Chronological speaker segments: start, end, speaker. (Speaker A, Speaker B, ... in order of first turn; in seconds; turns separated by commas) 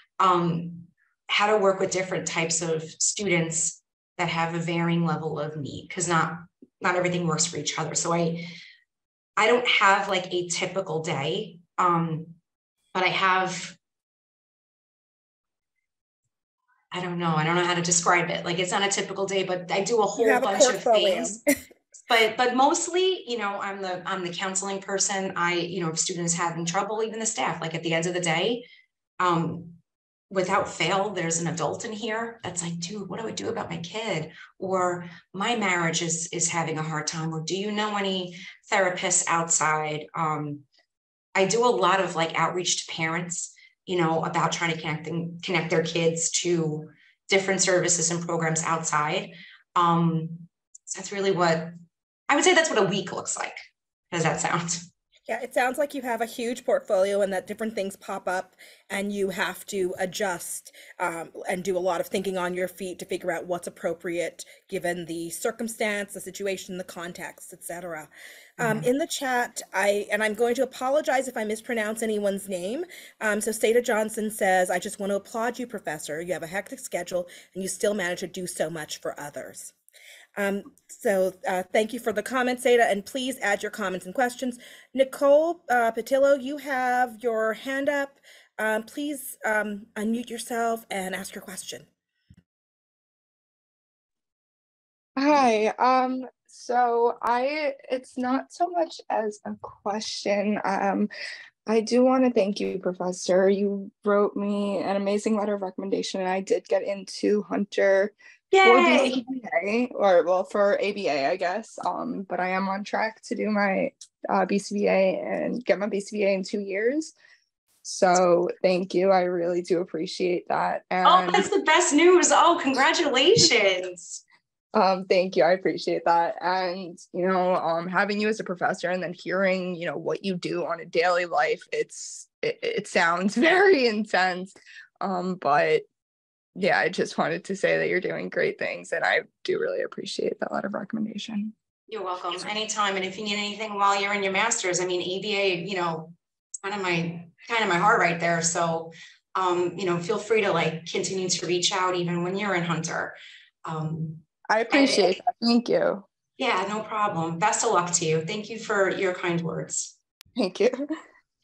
Speaker A: 0.2-8.5, Speaker A: 9.4-12.4, Speaker A: 12.9-13.8, Speaker A: 16.9-21.4, Speaker B: 20.2-21.4, Speaker A: 22.1-28.6, Speaker A: 29.2-29.8, Speaker A: 30.3-40.6, Speaker A: 41.4-51.7, Speaker A: 52.3-53.6, Speaker A: 54.1-54.9, Speaker B: 55.3-79.7, Speaker A: 68.6-68.9, Speaker B: 80.4-91.9, Speaker C: 95.2-101.1, Speaker C: 101.7-117.1, Speaker A: 108.5-109.2, Speaker C: 117.8-121.5, Speaker A: 121.0-124.2, Speaker C: 124.7-135.9, Speaker C: 136.6-141.5, Speaker A: 141.9-155.2, Speaker C: 154.5-156.0, Speaker A: 156.4-159.9, Speaker C: 160.4-160.8